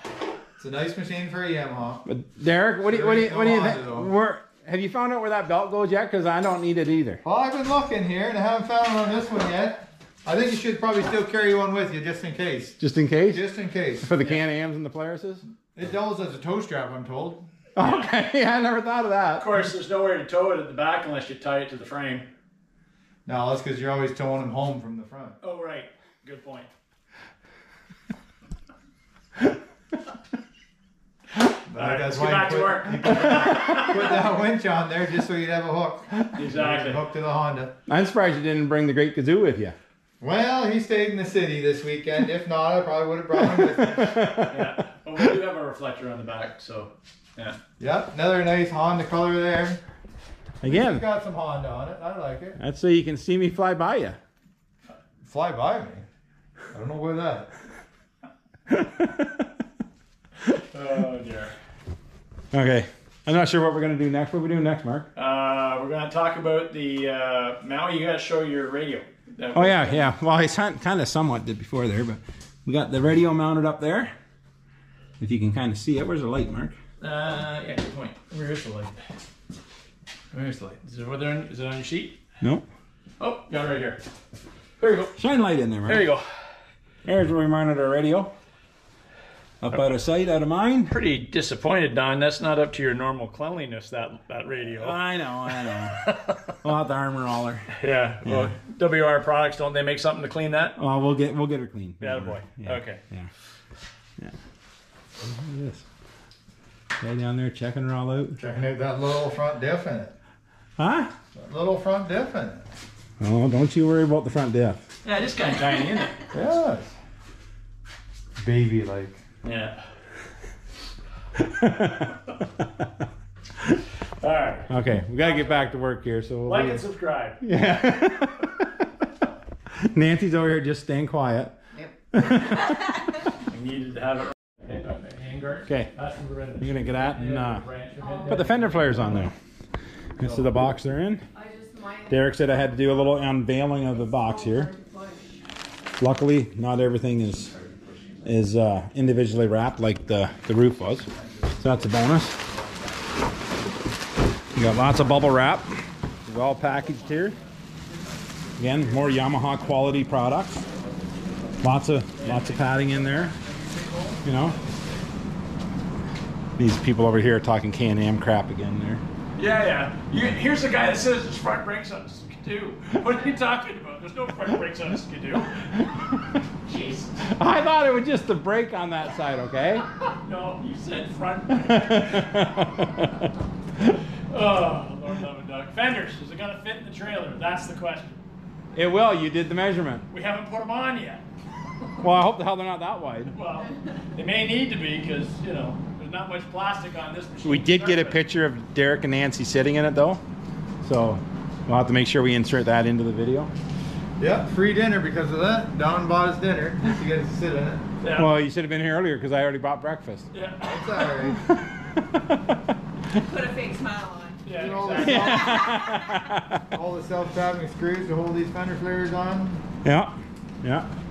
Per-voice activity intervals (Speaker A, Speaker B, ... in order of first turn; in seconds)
Speaker A: 0.6-2.0, 2.8-4.1, 7.2-14.1, 15.7-17.5, 23.2-25.4, 31.7-37.7, 40.2-44.4, 47.8-49.8, 50.6-52.6, 55.2-56.0, 56.7-57.5, 108.4-110.1, 111.3-112.6, 116.3-116.9, 118.4-119.2, 158.5-158.8, 163.1-164.2, 204.2-207.8, 210.6-211.4, 214.5-215.8, 216.7-219.6
Speaker B: 2.0-7.2, 12.8-13.4, 14.0-15.4, 17.8-19.5, 37.9-39.7, 43.5-45.3, 50.6-51.0, 52.6-54.2, 58.7-59.5, 62.5-65.1, 69.5-74.1, 75.2-76.7, 82.4-82.7, 85.2-86.0, 87.0-88.3, 89.6-90.9, 94.8-96.0, 96.6-97.7, 98.2-98.5, 100.8-103.3, 105.2-105.8, 107.0-108.4, 110.8-111.1, 113.2-114.8, 115.6-115.9, 121.3-122.8, 124.7-126.8, 127.4-128.9, 129.7-131.6, 132.1-132.8, 136.6-137.6, 138.2-139.3, 140.2-141.3, 142.1-144.7, 146.0-147.5, 148.2-151.1, 151.6-152.4, 154.5-157.3, 158.6-160.6, 161.6-163.4, 164.2-164.6, 166.6-169.0, 175.8-176.3, 177.2-179.9, 181.5-184.0, 188.7-190.1, 192.0-193.3, 197.4-200.2, 200.8-203.5, 208.2-210.3, 211.3-213.2, 215.0-216.7, 219.8-220.9
Speaker C: 19.4-22.3, 25.4-26.7, 31.8-34.0, 36.3-37.0, 44.4-47.6, 60.5-61.5, 65.2-70.1, 77.0-78.9, 80.3-82.2, 83.2-84.0, 84.8-85.2, 85.8-86.4, 90.9-95.0, 95.7-96.5, 97.7-100.8, 102.0-103.0, 115.0-116.2, 119.4-119.8, 124.2-125.7, 126.5-127.4, 133.5-139.2, 162.2-162.7, 169.3-175.7, 176.7-177.3, 180.2-182.4, 184.3-188.2, 190.1-191.2, 193.3-198.2, 208.0-208.3, 210.3-210.8, 214.4-215.6
Speaker D: 141.3-142.1, 144.5-145.3, 213.1-214.5